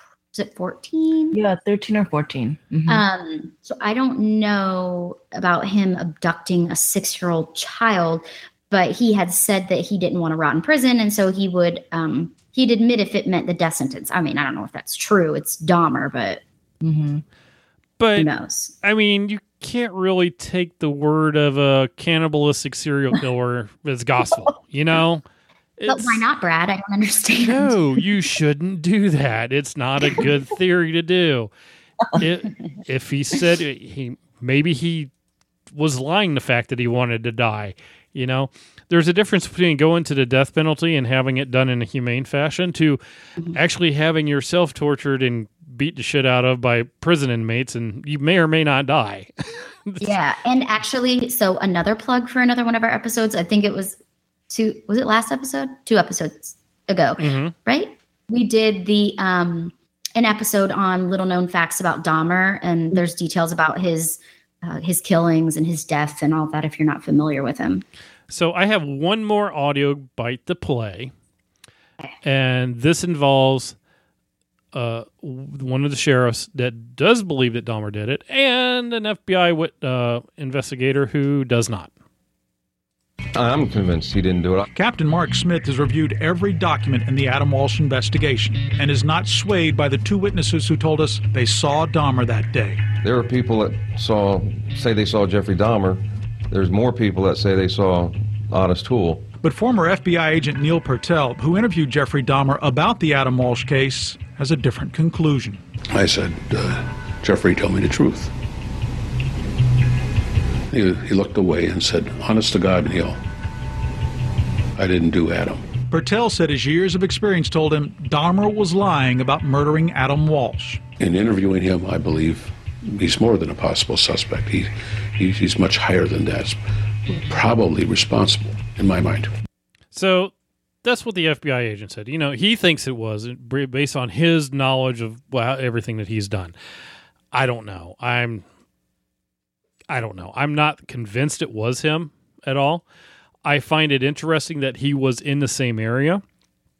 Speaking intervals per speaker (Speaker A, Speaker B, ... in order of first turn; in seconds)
Speaker A: 0.3-1.4, 2.9-16.4, 18.2-18.7, 25.9-27.7, 50.0-54.0, 54.5-67.8
Speaker B: 1.3-3.0, 16.8-17.2
Speaker C: 18.0-18.3, 18.8-25.2, 25.8-26.2, 27.4-31.5, 32.1-35.1, 35.7-43.0, 43.5-49.3, 49.9-50.1, 57.2-57.5, 68.3-71.1, 72.2-73.8, 74.7-81.9, 129.9-130.3, 130.8-136.5, 137.3-138.4, 139.9-142.8, 143.4-146.2
Speaker D: 83.3-84.7, 93.0-99.3
Speaker E: 84.7-92.9, 99.4-105.6, 115.9-120.8
Speaker F: 105.9-108.3, 110.7-113.2, 114.8-115.7, 121.0-129.3